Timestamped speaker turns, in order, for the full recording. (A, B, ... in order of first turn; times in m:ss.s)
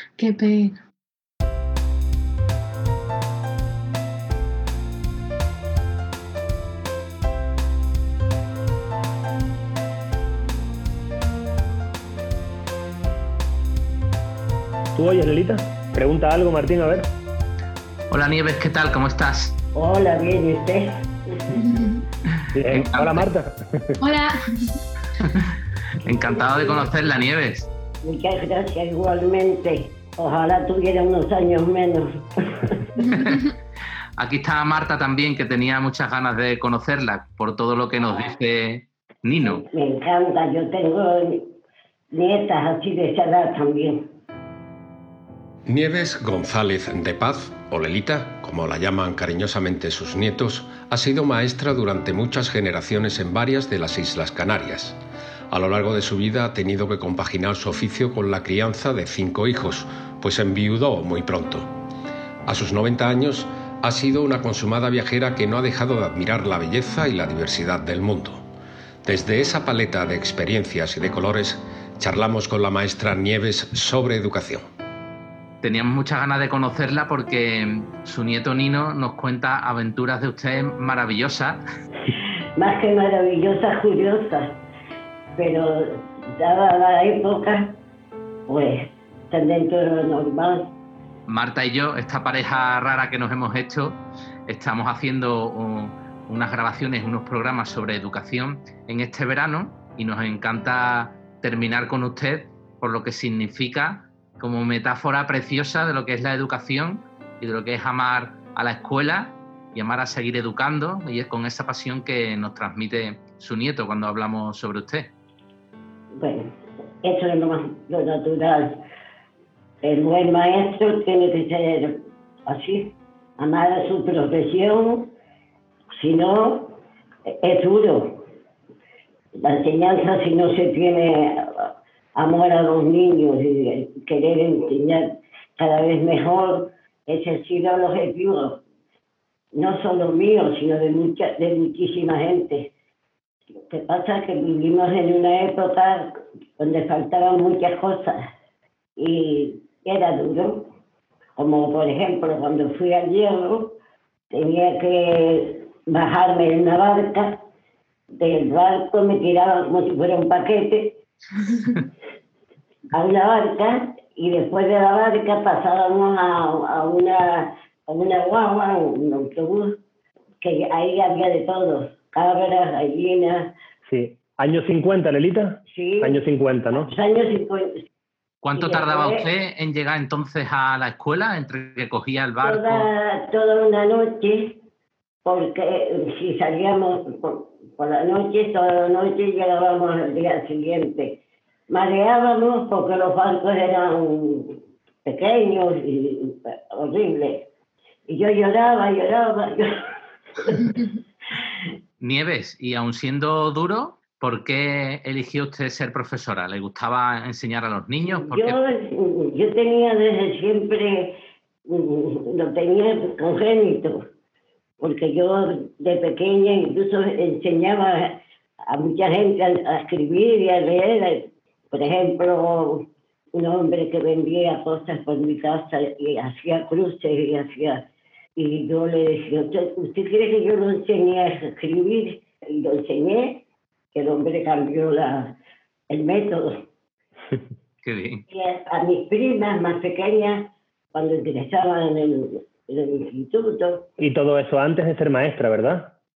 0:00.2-0:00.8 A
0:14.9-0:17.1 B
0:18.1-0:19.5 C
0:19.7-0:21.6 D
0:21.6-0:22.0 A
0:22.5-0:24.0 B
0:22.7-0:23.2 C
0:24.0-0:24.8 A
0:26.0-0:27.7 C
0:26.0-0:27.1 D
0:28.0-0:32.9 D
0:33.0-0:33.4 A
0:33.1-0:33.4 C
0:34.2-0:39.6 C
0:39.4-0:41.5 D
0:42.1-0:44.0 D
0:45.7-0:55.0 E
0:55.5-1:01.7 E
1:02.5-1:08.4 E
1:09.0-1:14.6 E
1:15.6-1:21.6 C
1:22.6-1:24.6 D
1:25.4-1:27.8 D
1:28.5-1:30.7 D
1:31.3-1:55.1 C
1:56.2-1:58.8 D
1:59.8-2:05.1 D
2:06.0-2:06.8 D
2:07.3-2:08.2 D
2:09.4-2:18.6 D
2:19.5-2:22.7 D
2:23.7-2:26.0 D
2:26.6-2:28.2 D
2:29.0-2:30.6 D
2:31.4-2:33.8 D
2:34.3-2:37.3 D
2:38.2-2:41.0 D
2:42.9-2:49.7 D
2:50.4-2:53.5 D
2:53.9-2:56.9 B
2:55.7-2:56.2 D
2:56.7-2:57.7 D
2:58.4-3:02.9 C
2:58.5-2:59.3 D
3:02.4-3:04.6 D
3:05.2-3:11.2 D
3:11.7-3:17.4 D
3:18.1-3:19.7 D
3:22.0-3:28.6 C
3:28.0-3:31.2 D
3:31.7-3:34.0 D
3:34.8-3:47.8 D
3:48.4-3:53.4 D
3:53.9-3:55.4 D
3:55.9-3:56.5 D
3:57.8-3:58.2 C
3:58.3-4:03.9 D
4:04.0-4:05.9 B